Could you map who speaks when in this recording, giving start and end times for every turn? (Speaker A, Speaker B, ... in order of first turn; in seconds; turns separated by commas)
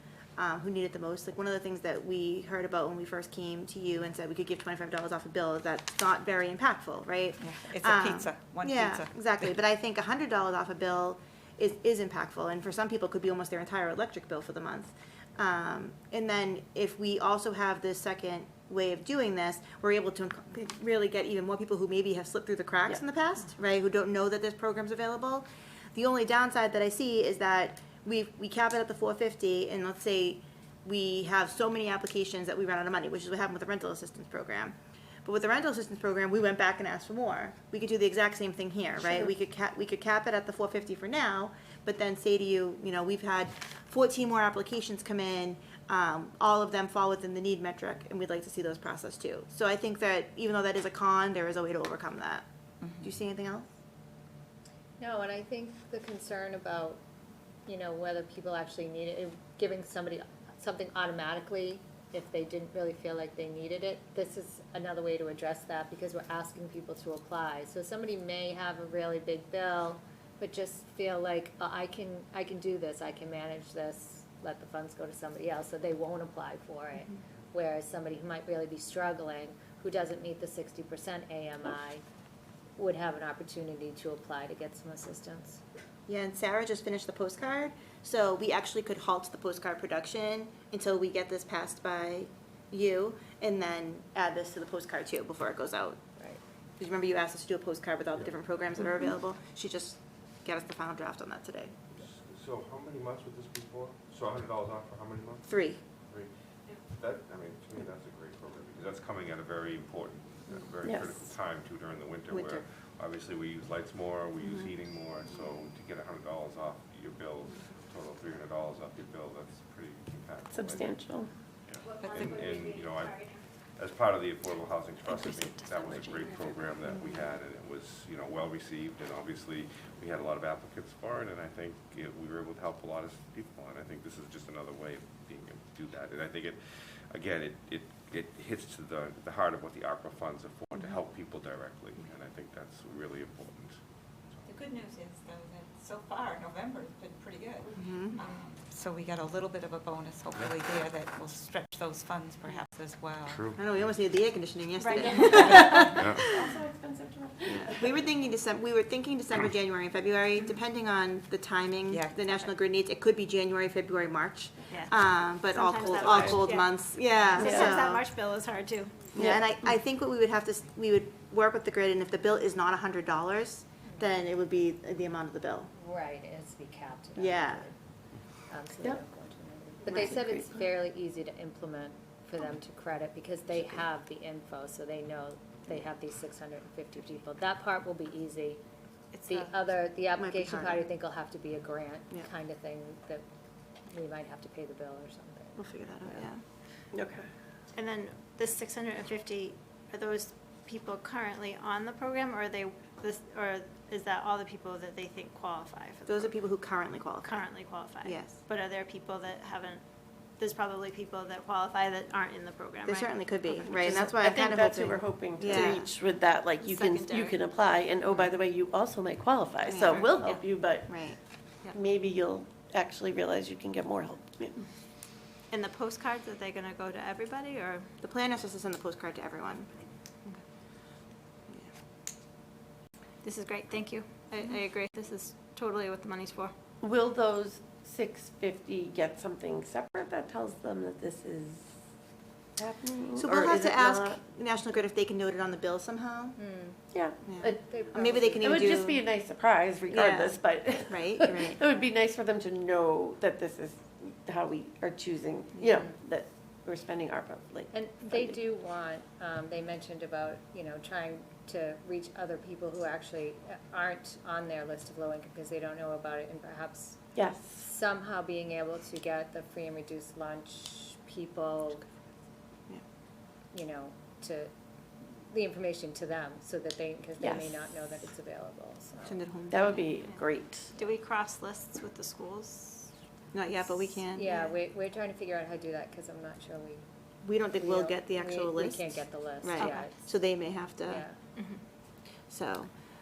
Speaker A: 0.4-52.5, Speaker B: 7.4-9.0, Speaker A: 53.0-53.7, Speaker C: 55.0-57.0, Speaker C: 57.7-82.0, Speaker C: 82.8-85.6, Speaker A: 86.1-96.0, Speaker A: 96.8-101.7, Speaker D: 101.9-105.5, Speaker A: 105.5-105.8, Speaker D: 106.1-121.0, Speaker E: 110.9-111.2, Speaker A: 112.3-112.6, Speaker E: 120.5-121.3, Speaker D: 121.7-143.8, Speaker F: 122.6-123.2, Speaker B: 144.5-147.7, Speaker A: 147.7-148.2, Speaker B: 148.2-153.4, Speaker D: 153.3-153.9, Speaker A: 153.6-156.3, Speaker F: 154.8-156.0, Speaker E: 154.9-158.0, Speaker A: 157.5-168.0, Speaker F: 164.7-164.9, Speaker F: 165.5-166.7, Speaker E: 165.8-166.4, Speaker E: 167.4-167.8, Speaker F: 167.4-169.1, Speaker A: 169.1-175.7, Speaker C: 175.7-177.7, Speaker A: 177.2-177.7, Speaker C: 178.5-188.6, Speaker E: 179.9-180.7, Speaker A: 179.9-180.2, Speaker C: 189.3-193.2, Speaker A: 190.2-190.8, Speaker C: 193.9-195.6, Speaker A: 195.7-196.4, Speaker E: 196.9-197.3, Speaker F: 197.8-206.3, Speaker A: 206.1-207.4, Speaker F: 207.2-209.8, Speaker A: 208.1-208.4, Speaker F: 210.4-213.8, Speaker A: 212.9-215.9, Speaker E: 213.8-221.0, Speaker F: 216.6-217.4, Speaker A: 219.7-220.2, Speaker F: 219.9-220.4, Speaker A: 220.8-221.2, Speaker E: 221.7-224.7, Speaker F: 225.5-227.9, Speaker A: 228.0-229.7, Speaker F: 233.2-236.5, Speaker E: 236.8-241.7, Speaker E: 242.6-244.2, Speaker A: 243.2-246.4, Speaker C: 246.4-246.8, Speaker E: 246.9-258.4, Speaker A: 247.2-249.0, Speaker C: 247.7-248.3, Speaker A: 249.9-251.6, Speaker A: 255.6-255.8, Speaker C: 257.8-267.0, Speaker E: 267.1-267.7, Speaker C: 267.5-271.9, Speaker C: 273.5-274.5, Speaker C: 275.1-279.2, Speaker E: 277.2-277.5, Speaker A: 279.1-279.9, Speaker E: 279.5-280.7, Speaker F: 280.8-282.9, Speaker A: 283.3-284.3, Speaker C: 284.1-286.8, Speaker A: 287.2-291.1, Speaker C: 287.6-289.9, Speaker F: 289.6-289.9, Speaker C: 290.9-291.2, Speaker F: 291.4-291.6, Speaker A: 292.3-292.7